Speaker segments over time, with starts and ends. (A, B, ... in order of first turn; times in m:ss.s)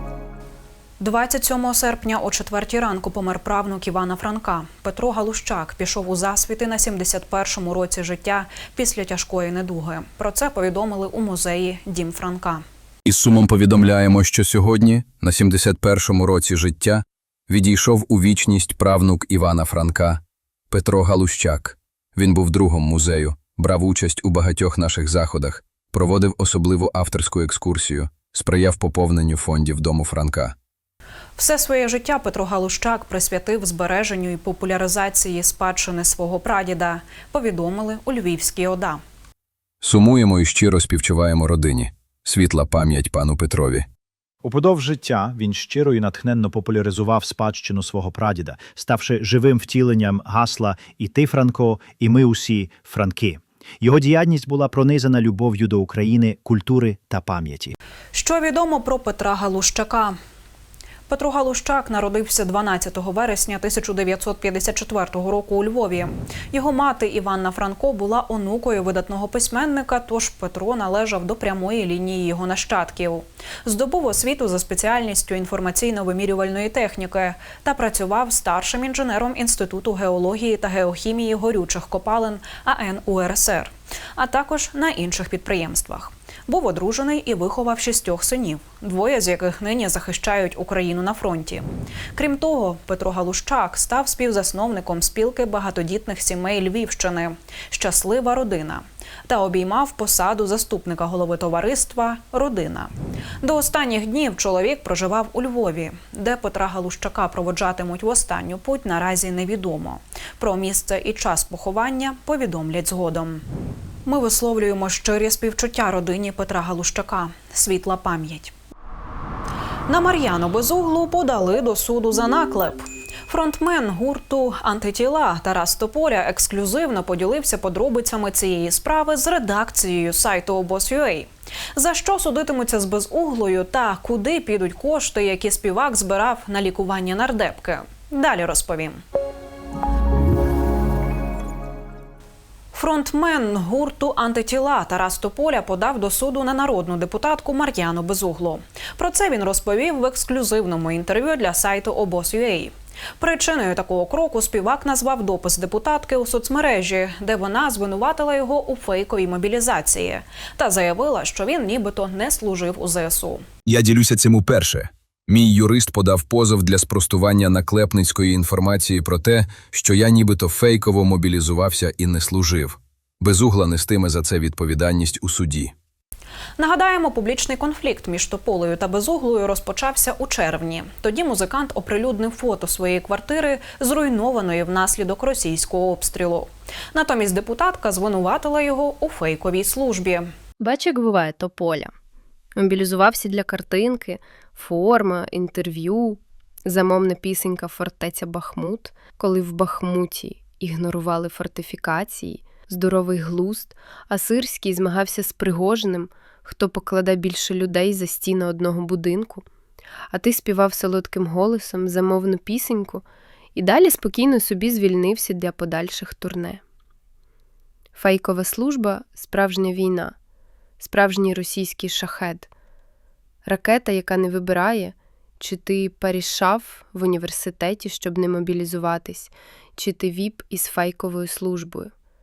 0:01.0-0:12.6 A
0:13.1-0:30.6 B
0:31.4-0:39.0 A
0:39.8-0:43.9 B
0:44.4-0:57.8 C
0:58.1-1:00.2 A
1:01.1-1:42.9 A
1:43.4-1:53.4 A
1:54.0-1:58.5 A
1:59.9-2:19.0 A
2:22.7-2:43.4 A
2:43.7-2:55.7 B
2:56.6-3:10.3 A
3:10.6-3:11.9 D
3:12.6-3:29.5 D
3:30.1-3:33.0 D
3:33.6-3:36.6 D
3:38.0-3:40.1 D
3:40.8-3:42.5 D
3:43.5-3:51.9 D